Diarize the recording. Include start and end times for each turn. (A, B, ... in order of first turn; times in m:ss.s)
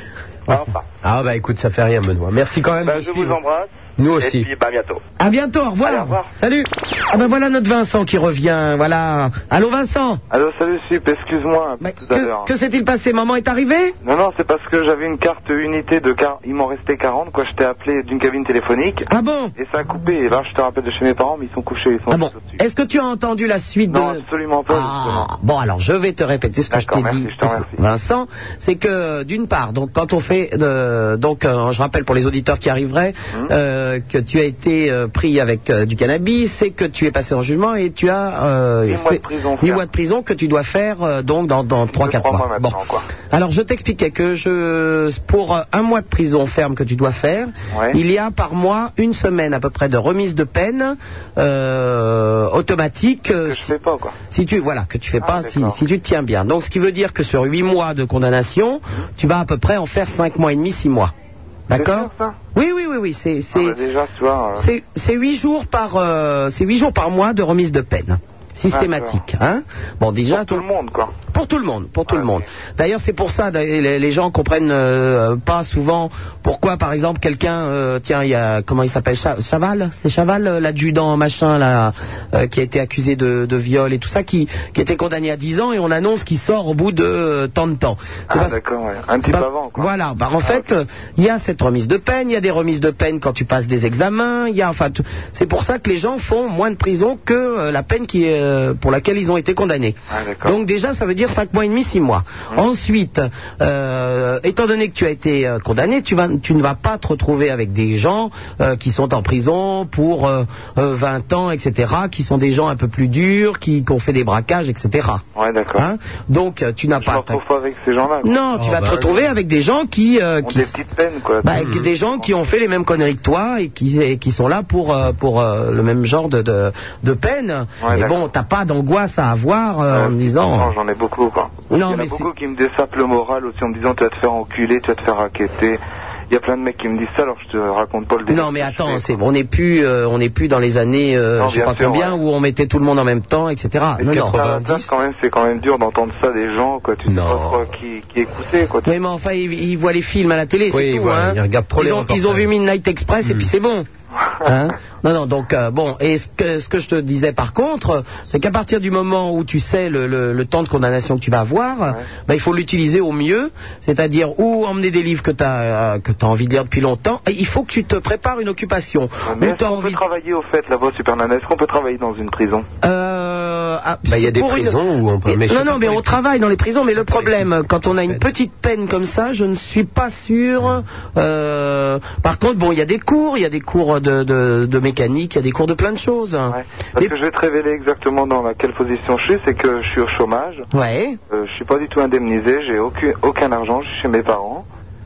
0:00.5-0:00.9 A
0:01.0-0:03.4 B
0:02.8-0:05.0 A
0:04.0-0:04.5 B
0:05.2-0:06.2 C
0:05.8-0:06.3 A
0:06.4-0:06.7 B
0:07.1-0:10.2 C
0:10.3-0:12.5 D
0:11.8-0:14.0 C
0:14.0-0:22.6 D
0:19.1-0:19.5 C
0:22.1-0:42.8 C
0:23.9-0:25.3 D
0:26.7-0:27.8 D
0:38.9-0:39.8 D
0:41.9-0:43.1 D
0:43.3-0:53.7 C
0:47.7-0:48.0 D
0:53.4-0:54.2 D
0:54.3-1:01.1 C
0:55.2-0:55.8 D
1:01.7-1:03.8 C
1:01.7-1:02.4 D
1:03.5-1:04.7 D
1:04.6-1:10.6 C
1:08.7-1:09.2 D
1:10.3-1:11.2 D
1:11.3-1:28.6 C
1:12.1-1:12.4 D
1:28.3-1:29.9 D
1:29.2-1:55.2 C
1:30.4-1:30.7 D
1:40.1-1:40.6 D
1:55.4-1:55.9 D
1:55.8-1:57.4 C
1:57.0-1:58.4 D
1:58.2-2:00.8 C
1:58.6-1:59.2 B
2:00.4-2:01.5 D
2:01.4-2:10.7 C
2:01.5-2:01.9 B
2:07.8-2:08.2 D
2:09.9-2:19.2 D
2:11.7-2:12.3 C
2:18.3-2:24.4 C
2:21.4-2:22.2 D
2:24.0-2:28.9 D
2:24.0-2:24.9 B
2:27.1-2:27.6 B
2:28.8-2:33.9 C
2:30.7-2:32.5 B
2:33.2-2:33.5 B
2:34.4-2:50.0 C
2:49.3-2:52.7 D
2:52.8-3:07.1 C
2:54.1-2:56.2 B
2:57.0-2:58.2 B
3:06.5-3:10.7 D
3:10.7-3:11.2 C
3:11.3-3:14.6 D